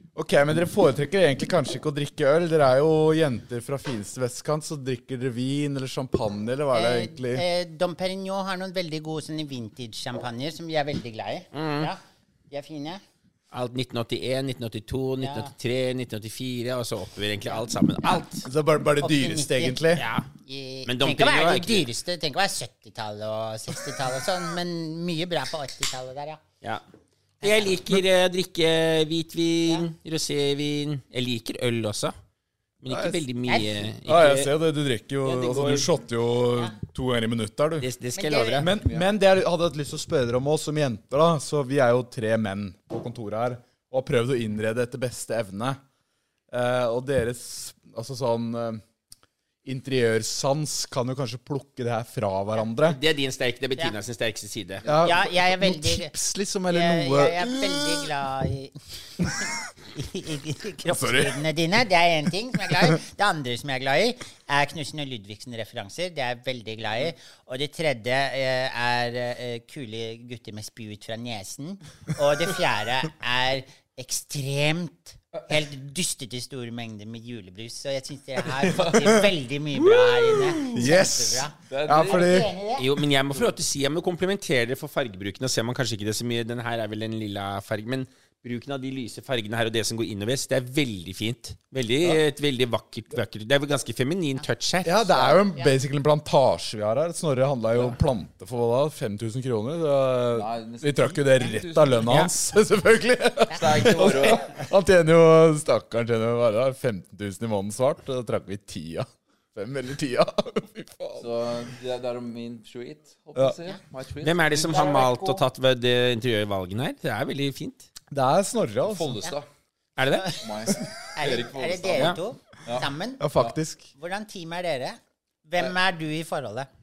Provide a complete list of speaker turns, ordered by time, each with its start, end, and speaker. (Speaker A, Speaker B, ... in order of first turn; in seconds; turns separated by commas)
Speaker A: 0.1-7.4, Speaker B: 6.7-12.0, Speaker C: 11.5-11.9, Speaker B: 12.5-13.0, Speaker C: 13.5-18.4, Speaker B: 15.2-15.5, Speaker B: 17.5-18.2, Speaker A: 18.4-20.0, Speaker B: 19.0-19.8, Speaker C: 19.9-20.3, Speaker B: 20.4-26.4, Speaker C: 20.9-21.9, Speaker B: 27.4-27.7, Speaker C: 27.4-32.1, Speaker C: 32.8-34.5, Speaker A: 32.9-33.2, Speaker B: 33.5-33.8, Speaker A: 34.0-37.9, Speaker C: 35.2-35.9, Speaker C: 37.8-38.7, Speaker B: 38.1-38.7, Speaker A: 38.6-45.8, Speaker D: 38.8-39.0, Speaker A: 46.5-48.8, Speaker A: 49.6-53.0, Speaker C: 52.8-54.8, Speaker A: 54.9-58.1, Speaker B: 55.0-56.1, Speaker B: 56.7-58.8, Speaker B: 59.4-82.9, Speaker A: 60.9-61.4, Speaker D: 78.5-79.3, Speaker A: 80.3-82.5, Speaker D: 81.7-82.5, Speaker C: 82.8-95.2, Speaker A: 94.8-111.3, Speaker B: 95.2-95.7, Speaker D: 100.3-102.3, Speaker B: 103.5-104.2, Speaker D: 103.5-104.5, Speaker D: 111.2-114.9, Speaker C: 114.2-117.9, Speaker B: 114.6-115.4, Speaker A: 118.1-119.2, Speaker D: 118.9-119.5, Speaker C: 120.0-120.4, Speaker B: 120.2-123.2, Speaker D: 120.4-123.5, Speaker A: 123.2-123.9, Speaker B: 124.0-126.7